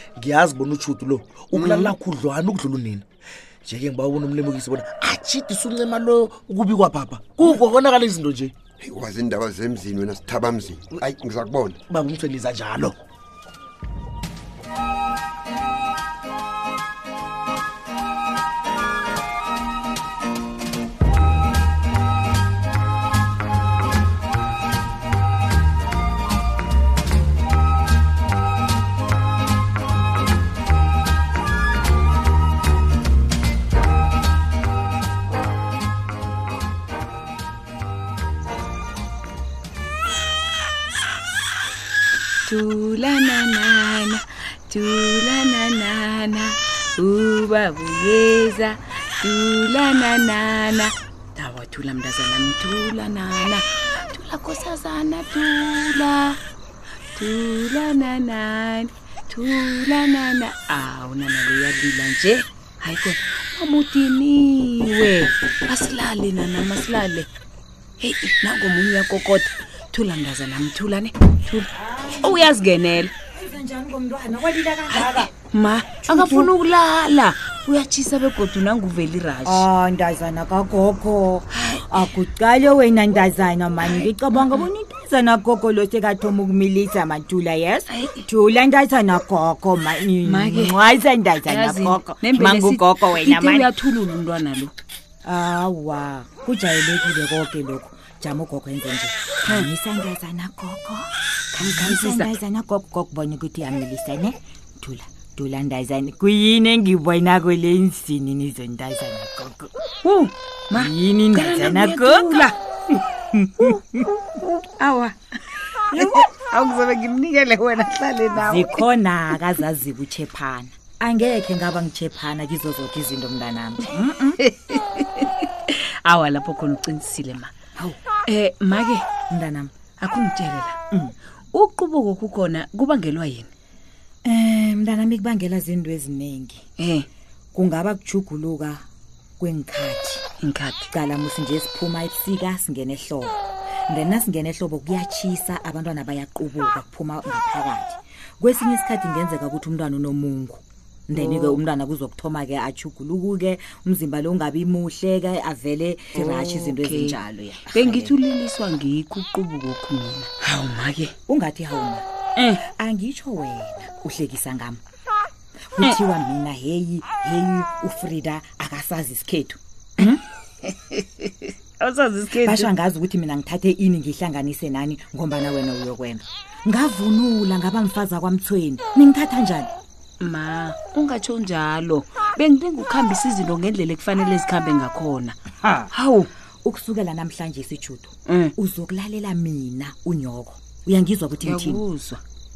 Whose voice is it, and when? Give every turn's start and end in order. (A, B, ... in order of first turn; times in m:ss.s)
0:00.2-0:03.0 A
0:01.5-0:02.0 B
0:03.6-0:08.5 A
0:08.8-0:11.8 B
0:11.9-0:13.0 A
0:42.5-0:56.4 C
0:57.2-1:07.3 C
1:08.0-1:13.1 C
1:11.8-1:12.5 D
1:13.3-1:15.3 D
1:14.9-1:19.7 C
1:19.4-1:33.7 D
1:21.5-1:22.0 C
1:27.9-1:28.3 C
1:30.2-1:30.8 C
1:31.4-1:34.7 C
1:35.2-1:49.7 D
1:41.5-1:42.3 C
1:50.0-1:52.6 C
1:50.7-1:52.5 D
1:53.2-1:53.8 D
1:53.6-1:55.1 C
1:55.9-1:58.8 C
1:58.4-2:04.4 D
2:04.4-2:07.5 C
2:08.3-2:09.1 C
2:09.3-2:09.7 D
2:10.0-2:10.8 C
2:11.5-2:13.5 C
2:14.2-2:16.6 D
2:16.8-2:17.1 C
2:17.5-2:18.8 D
2:19.4-2:20.2 D
2:20.4-2:20.9 C
2:20.9-2:23.4 D
2:23.9-2:38.2 D
2:31.1-2:31.6 C
2:36.1-2:37.2 C
2:37.7-2:41.1 C
2:41.3-2:42.0 D
2:42.4-2:42.6 C
2:42.6-2:44.8 D
2:45.7-2:49.6 D
2:50.0-2:52.7 C
2:52.4-2:59.7 D
3:00.2-3:05.4 C
3:05.9-3:06.3 C
3:06.6-3:11.8 D
3:08.3-3:08.5 C
3:11.4-3:12.2 C